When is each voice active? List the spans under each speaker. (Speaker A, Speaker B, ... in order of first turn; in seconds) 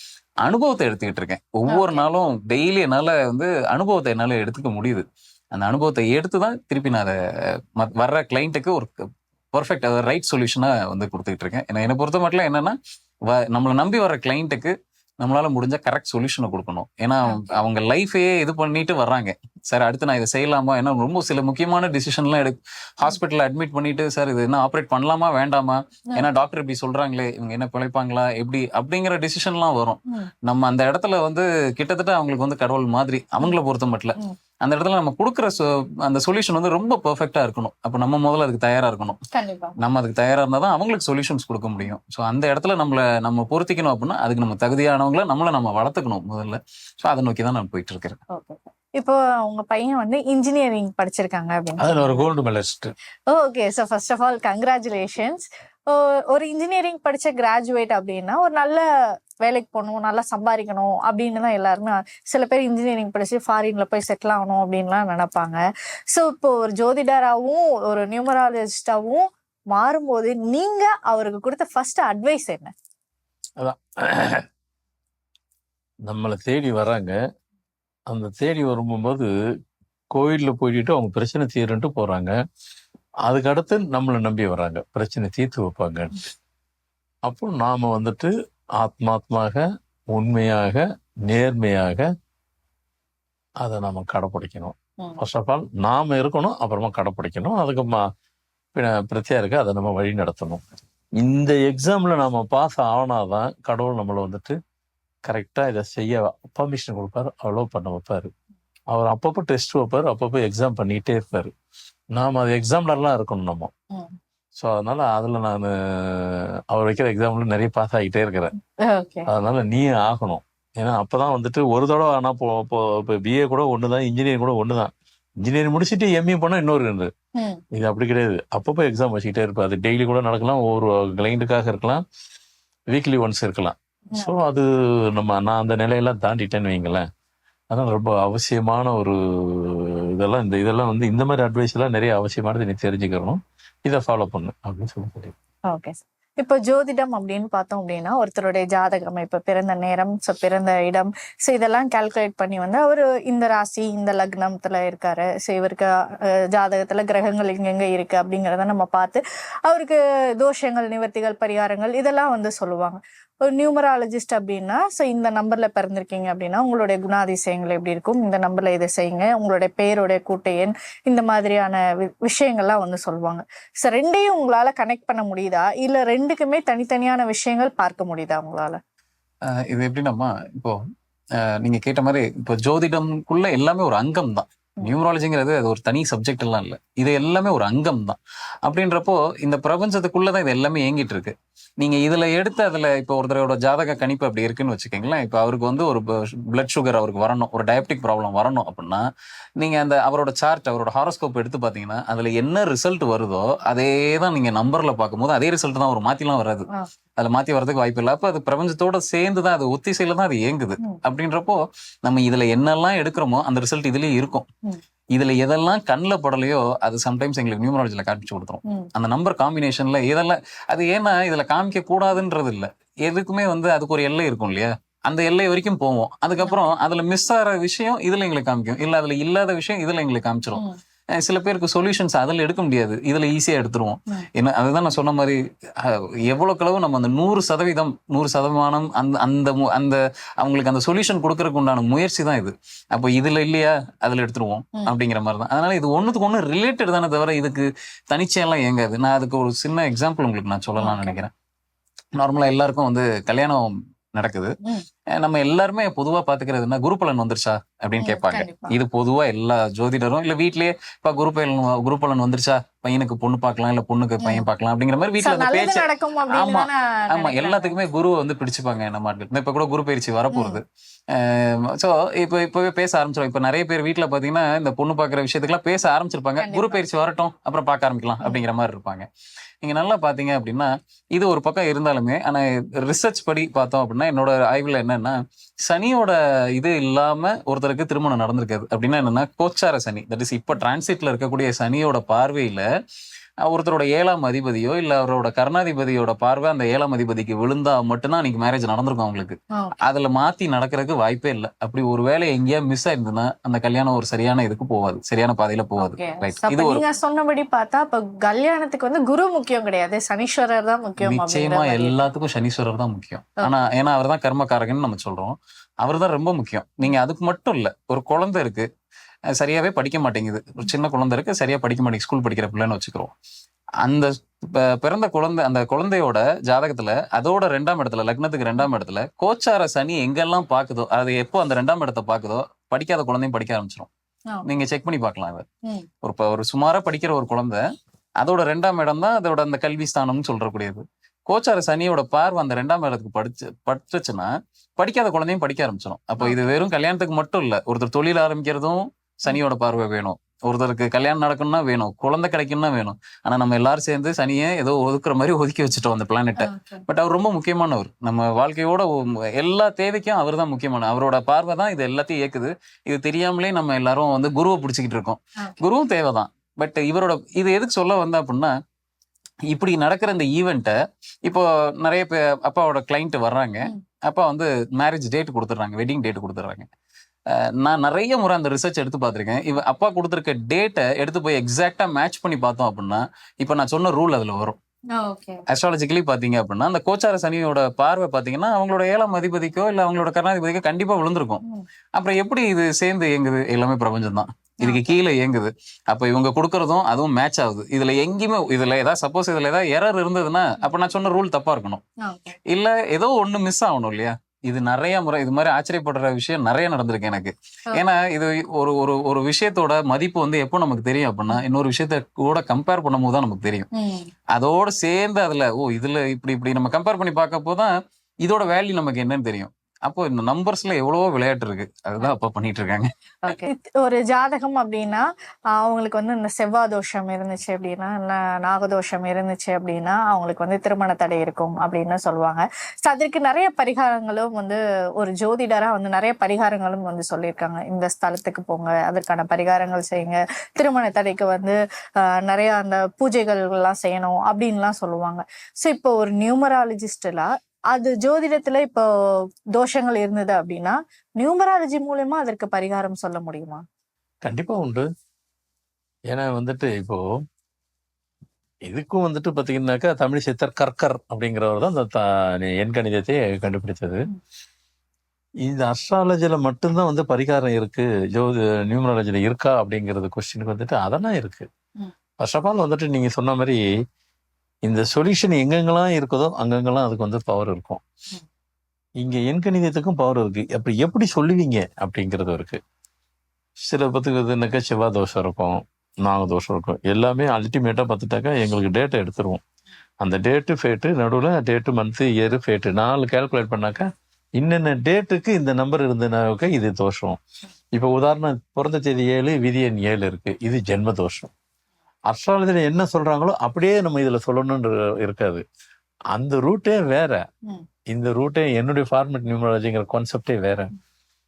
Speaker A: 0.4-7.1, 7.8-8.9, 9.5-12.8, 13.3-39.2, 39.8-48.2, 179.5-180.8, 181.4-199.0, 199.6-214.5, 215.2-230.6, 231.2-251.3, 252.2-254.5, 255.2-279.1, 279.6-292.6, 293.4-306.8, 311.0-318.7, 319.4-323.1, 323.8-333.9, 334.4-335.5, 336.0-337.6, 338.2-368.5, 369.5-376.7, 377.3-384.6, 385.5-391.4, 391.9-401.8, 402.5-413.7, 414.3-417.7, 418.3-423.3
Speaker B: 1.7-2.1, 17.2-17.6, 39.3-39.8, 48.3-52.3, 53.3-65.6, 66.1-72.7, 118.8-119.3, 127.4-127.6, 134.1-134.4, 145.7-178.8, 250.8-251.2, 258.0-258.8, 264.2-264.5, 265.2-267.8, 270.3-270.6, 276.4-276.8, 305.8-312.0, 356.4-356.8, 384.9-385.4, 394.6-394.9, 402.0-402.4, 413.8-414.1, 423.2-448.9, 449.6-453.6
Speaker C: 51.8-52.9, 73.6-74.4, 76.0-77.2, 78.1-79.3, 80.1-82.3, 83.3-86.2, 87.2-92.1, 93.6-98.0, 98.8-100.6, 101.2-104.6, 105.3-108.3, 108.9-111.5, 112.1-113.7, 114.6-118.5, 119.3-124.9, 125.4-127.1, 127.7-132.0, 132.9-137.1, 137.7-145.3, 454.2-454.9, 456.1-457.0, 458.7-464.1, 465.4-471.5, 472.2-473.7, 474.6-477.8, 479.0-482.6, 483.7-489.4, 490.0-497.2, 497.8-501.3, 502.1-505.4, 506.1-507.2, 507.9-510.7